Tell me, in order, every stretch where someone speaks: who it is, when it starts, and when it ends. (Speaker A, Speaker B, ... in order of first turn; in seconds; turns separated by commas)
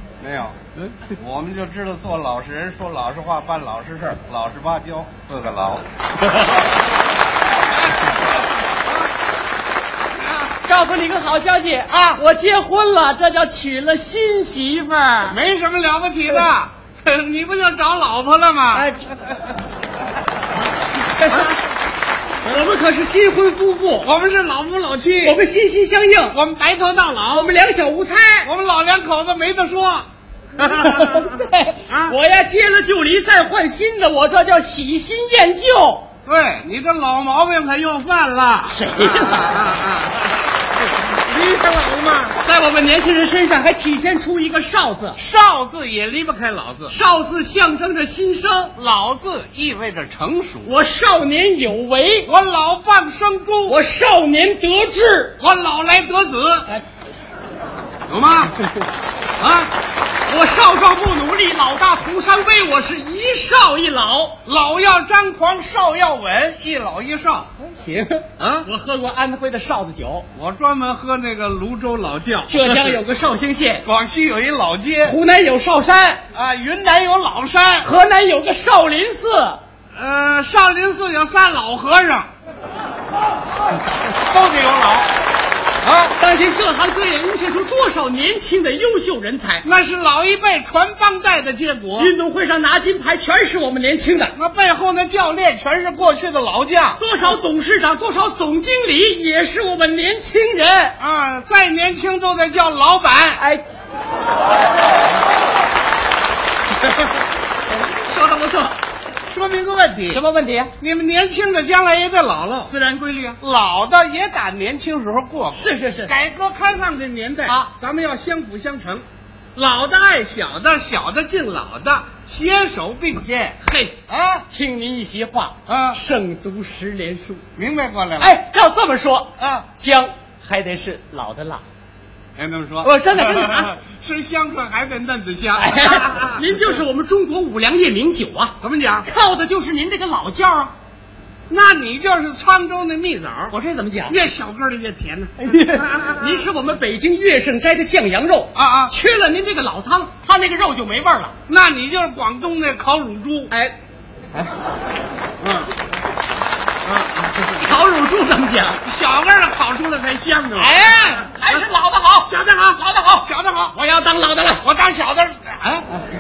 Speaker A: 0.2-0.5, Speaker A: 1.2-5.8, Speaker B: 10.6-15.4, Speaker A: 11.9-12.2, Speaker A: 15.3-18.9, Speaker B: 18.7-19.1, Speaker B: 21.0-21.5, Speaker A: 21.3-21.5, Speaker B: 22.4-24.1, Speaker A: 24.0-25.3, Speaker B: 25.2-26.4, Speaker A: 26.3-27.5, Speaker B: 27.3-28.5, Speaker A: 28.4-30.1, Speaker A: 30.6-32.1, Speaker B: 30.6-36.1, Speaker A: 36.2-40.3, Speaker B: 38.7-39.6, Speaker A: 40.9-42.4, Speaker B: 42.4-45.2, Speaker A: 45.2-46.9, Speaker B: 46.9-48.7, Speaker A: 48.8-50.7, Speaker B: 50.6-52.3, Speaker A: 52.3-53.8, Speaker B: 53.6-55.4, Speaker A: 55.4-56.7, Speaker A: 58.1-58.5, Speaker A: 59.4-59.7, Speaker B: 60.2-64.4, Speaker A: 64.5-67.5, Speaker B: 67.6-70.2, Speaker A: 68.4-68.7, Speaker A: 70.3-73.0, Speaker B: 72.5-73.8, Speaker A: 73.8-75.2, Speaker B: 75.0-76.2, Speaker A: 76.3-77.9, Speaker B: 77.8-79.6, Speaker A: 79.9-82.3, Speaker A: 84.2-85.1, Speaker A: 85.8-86.1, Speaker B: 86.2-89.7, Speaker A: 89.6-92.1, Speaker B: 92.0-94.4, Speaker A: 94.4-97.0, Speaker B: 97.0-101.0, Speaker A: 101.0-103.4, Speaker B: 103.4-103.6, Speaker B: 107.7-108.8, Speaker A: 109.3-110.2, Speaker B: 110.1-110.7, Speaker A: 110.8-112.7, Speaker B: 112.6-113.4, Speaker A: 113.4-119.0, Speaker B: 115.5-116.1, Speaker B: 117.5-117.7, Speaker A: 119.5-124.5, Speaker B: 123.6-124.0, Speaker B: 124.5-127.4, Speaker A: 125.7-126.0, Speaker A: 127.6-128.4, Speaker B: 128.2-131.6, Speaker A: 129.4-129.7, Speaker A: 132.4-136.5, Speaker B: 132.8-133.7, Speaker B: 135.6-140.7, Speaker A: 138.6-139.1, Speaker A: 141.5-143.5, Speaker B: 143.5-144.2, Speaker A: 144.1-146.4, Speaker B: 145.4-151.3, Speaker A: 148.6-148.9, Speaker A: 151.5-153.5, Speaker B: 153.5-153.8, Speaker A: 155.4-155.7, Speaker A: 156.8-157.6, Speaker B: 157.4-158.8, Speaker A: 158.8-161.7, Speaker B: 160.6-162.4, Speaker A: 162.2-163.8, Speaker B: 162.9-164.7, Speaker A: 164.6-165.9